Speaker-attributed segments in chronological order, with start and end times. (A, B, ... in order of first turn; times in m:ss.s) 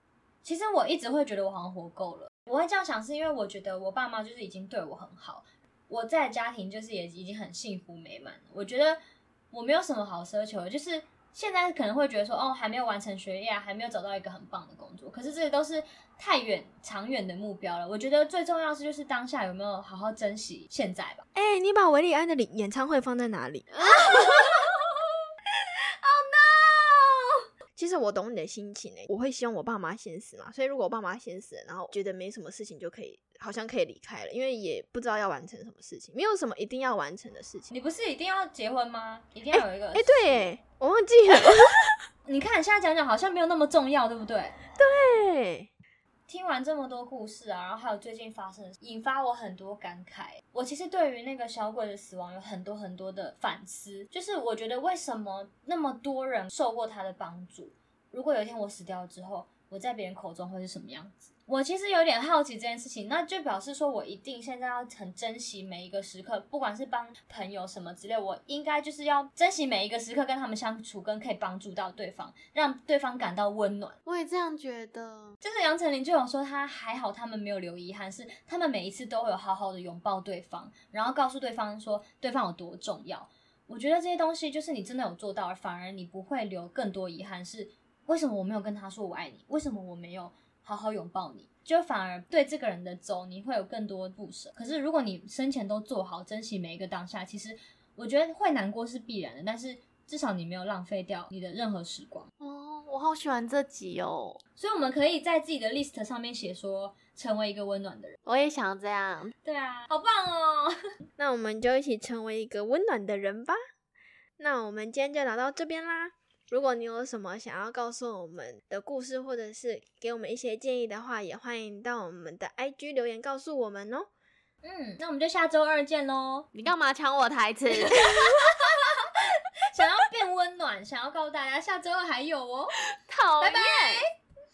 0:00.4-0:09.0 A
0:09.5-0:21.2 A
0:21.3-0:23.7 B
0:23.7-0:24.7 C
0:23.8-0:24.7 A
0:26.0-0:27.3 A
0:27.8-0:37.7 B
0:37.7-0:40.5 A
0:39.5-0:41.9 B
0:42.2-0:44.6 A
0:44.7-0:45.7 B
0:46.3-1:14.0 A
1:14.0-1:15.4 C
1:15.4-1:42.3 A
1:42.4-1:44.4 C
1:44.6-1:48.2 A
1:48.2-1:49.3 C
1:49.4-1:50.8 A
1:51.2-1:53.6 B
1:54.4-2:04.1 B
2:04.6-2:06.5 A
2:06.5-2:08.2 C
2:07.9-2:12.8 A
2:13.1-2:14.0 C
2:13.4-2:14.1 A